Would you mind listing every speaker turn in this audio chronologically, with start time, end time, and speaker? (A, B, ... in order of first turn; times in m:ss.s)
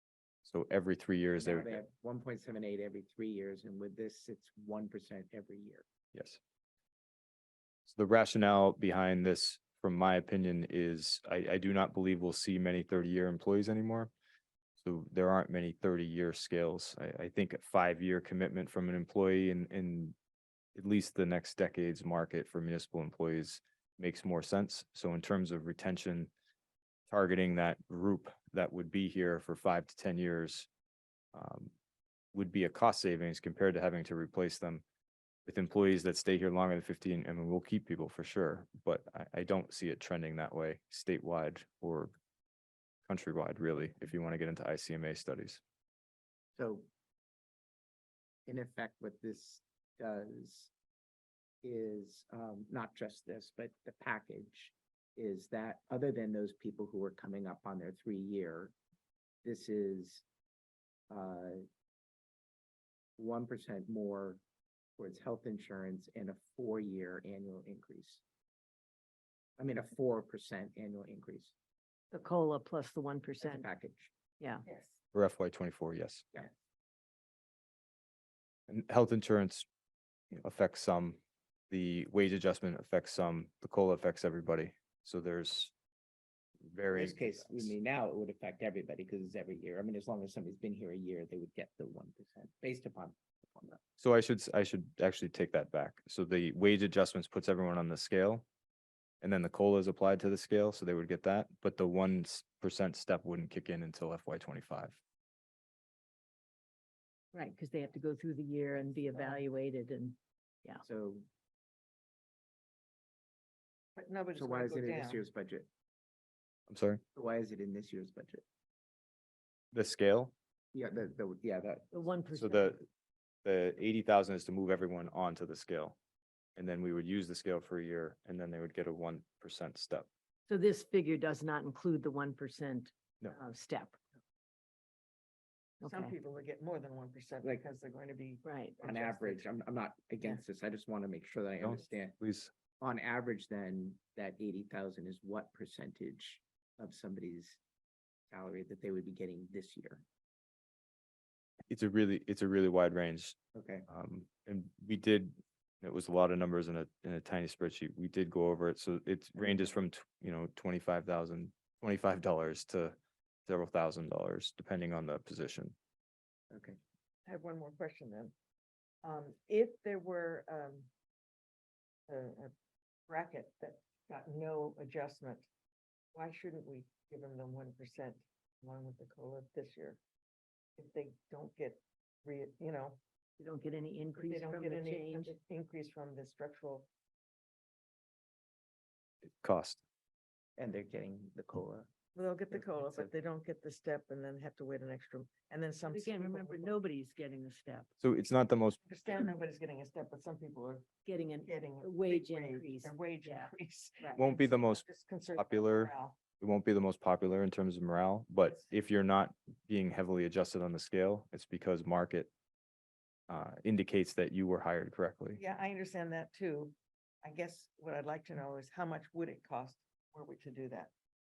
0:00.4-0:01.8 A
0:01.4-0:05.8 B
0:06.1-0:06.4 A
0:07.9-0:14.1 A
0:14.8-0:20.1 A
0:20.8-0:26.3 A
0:27.1-0:30.7 A
0:31.3-0:31.7 A
0:32.3-0:34.8 A
0:35.4-0:42.1 A
0:43.1-0:45.6 A
0:46.6-0:46.9 B
0:48.4-0:50.7 B
0:51.6-0:58.7 B
0:59.4-1:00.2 B
1:01.1-1:01.7 B
1:03.2-1:04.4 B
1:05.0-1:08.2 B
1:09.6-1:11.5 B
1:12.1-1:13.7 C
1:13.4-1:14.1 B
1:14.4-1:14.7 C
1:14.7-1:15.0 D
1:15.1-1:16.2 A
1:18.7-1:19.7 A
1:20.3-1:21.2 A
1:21.7-1:25.7 A
1:26.6-1:27.7 A
1:26.9-1:33.8 B
1:34.0-1:38.4 A
1:39.2-1:45.0 A
1:47.3-1:50.8 C
1:50.8-1:51.3 B
1:54.0-1:55.2 D
1:54.3-1:55.7 B
1:56.7-1:57.0 A
1:57.1-1:58.4 B
1:59.7-2:00.3 A
2:00.7-2:02.0 B
2:01.9-2:02.8 C
2:02.4-2:02.8 A
2:03.4-2:06.0 A
2:06.6-2:10.1 A
2:10.5-2:14.0 C
2:15.8-2:16.2 C
2:15.8-2:19.4 D
2:18.4-2:18.8 C
2:18.8-2:22.2 B
2:21.6-2:22.5 A
2:22.8-2:27.6 B
2:28.3-2:30.0 B
2:31.7-2:33.4 A
2:33.6-2:33.9 B
2:33.9-2:45.8 A
2:39.4-2:39.8 B
2:46.5-2:46.8 B
2:47.3-2:48.3 D
2:49.0-2:50.9 D
2:52.1-2:52.5 D
2:53.1-2:55.5 D
2:56.1-3:00.0 D
3:00.8-3:03.0 D
3:03.4-3:05.4 C
3:04.2-3:06.9 D
3:09.3-3:09.8 A
3:10.6-3:11.9 B
3:12.2-3:16.8 D
3:12.5-3:13.1 B
3:15.9-3:17.9 C
3:18.0-3:18.8 A
3:18.8-3:26.2 D
3:21.0-3:24.2 C
3:24.2-3:24.8 A
3:25.3-3:32.3 A
3:33.3-3:35.4 A
3:35.4-3:40.9 D